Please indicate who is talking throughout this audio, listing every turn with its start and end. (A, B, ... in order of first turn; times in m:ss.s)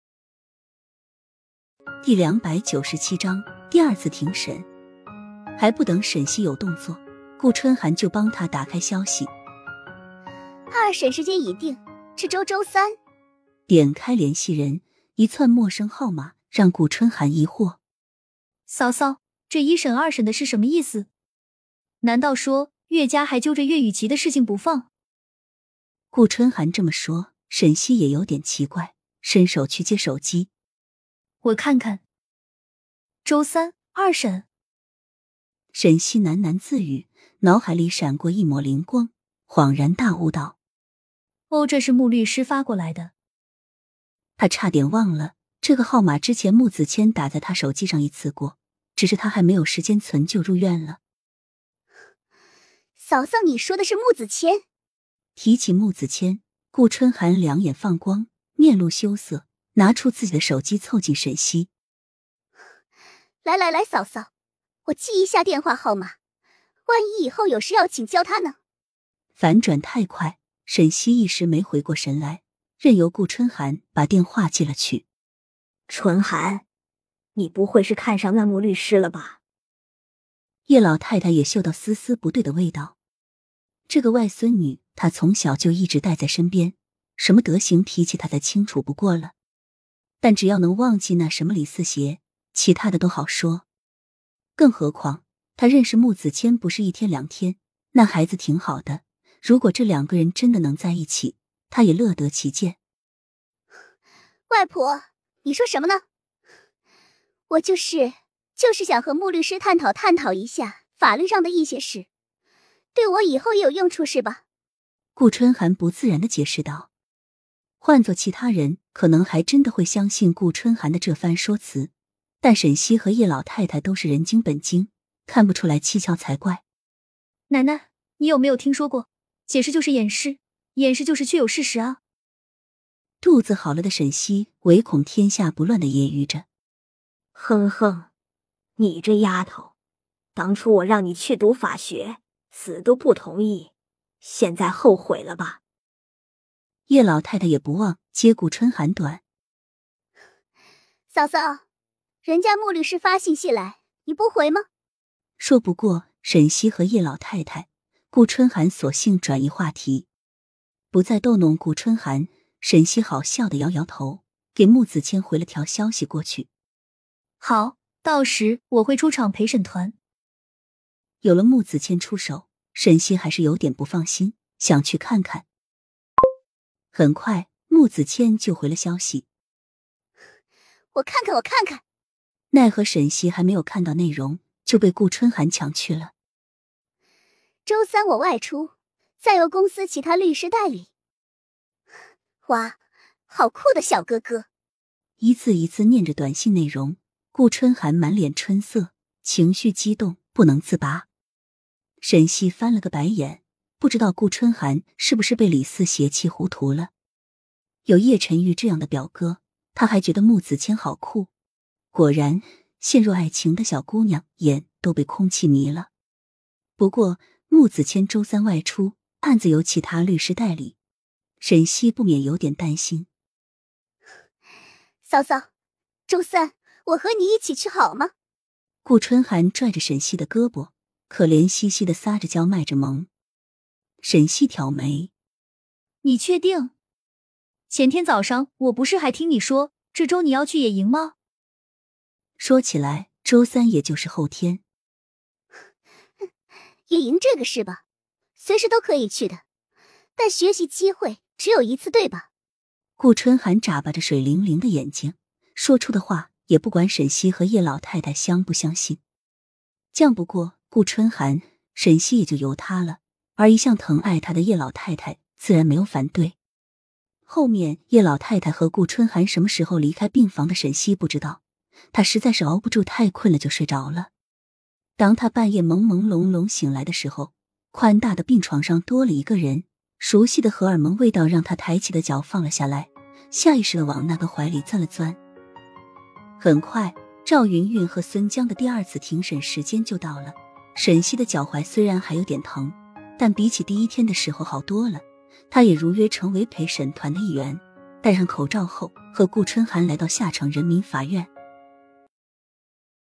0:02.0-0:04.7 A
0:05.6-0:09.3 A
0:10.7-0:12.9 B
0:13.7-0:17.8 A
0:18.7-0:21.1 C
0:22.0-0:24.9 C
0:26.1-0:30.5 A
0:31.4-0:32.0 C
0:33.2-0:34.4 C
0:35.7-0:40.6 A
0:41.5-0:43.1 C
0:44.4-0:51.0 A
0:53.0-0:54.6 B
0:55.4-1:01.7 A
1:03.4-1:04.3 B
1:04.9-1:06.1 B
1:06.9-1:08.6 B
1:09.4-1:15.0 A
1:15.9-1:16.6 D
1:17.4-1:19.4 D
1:20.7-1:23.0 A
1:23.9-1:29.3 A
1:30.2-1:33.6 A
1:34.6-1:42.8 A
1:44.5-1:46.0 B
1:47.5-1:52.1 B
1:53.0-1:54.4 B
1:55.2-1:56.9 A
1:57.8-2:01.9 A
2:02.4-2:06.6 A
2:07.5-2:12.0 C
2:13.2-2:16.4 A
2:17.4-2:18.1 D
2:18.8-2:19.7 D
2:20.4-2:25.6 D
2:26.9-2:29.2 A
2:31.1-2:31.6 B
2:32.2-2:34.7 B
2:35.4-2:40.1 A
2:40.9-2:46.5 A
2:47.4-2:50.0 C
2:51.2-2:55.5 A
2:56.9-2:59.3 A
3:00.9-3:01.8 B
3:02.5-3:06.1 A
3:07.7-3:10.9 B
3:12.4-3:12.8 B
3:13.3-3:14.5 B
3:15.2-3:21.1 A
3:22.0-3:26.9 A
3:27.9-3:31.3 A
3:31.9-3:35.9 A
3:36.8-3:40.8 A
3:41.4-3:43.1 A
3:45.1-3:45.5 B
3:46.1-3:48.1 B
3:48.8-3:53.1 A
3:54.0-3:55.1 A
3:56.0-3:56.7 C
3:57.7-4:01.2 C
4:02.4-4:04.6 A
4:06.9-4:07.8 B
4:08.4-4:09.4 B
4:10.2-4:12.3 B
4:13.0-4:19.0 A
4:19.9-4:26.4 A
4:27.3-4:31.4 A
4:31.9-4:34.1 A
4:35.0-4:45.2 A
4:46.4-5:01.3 A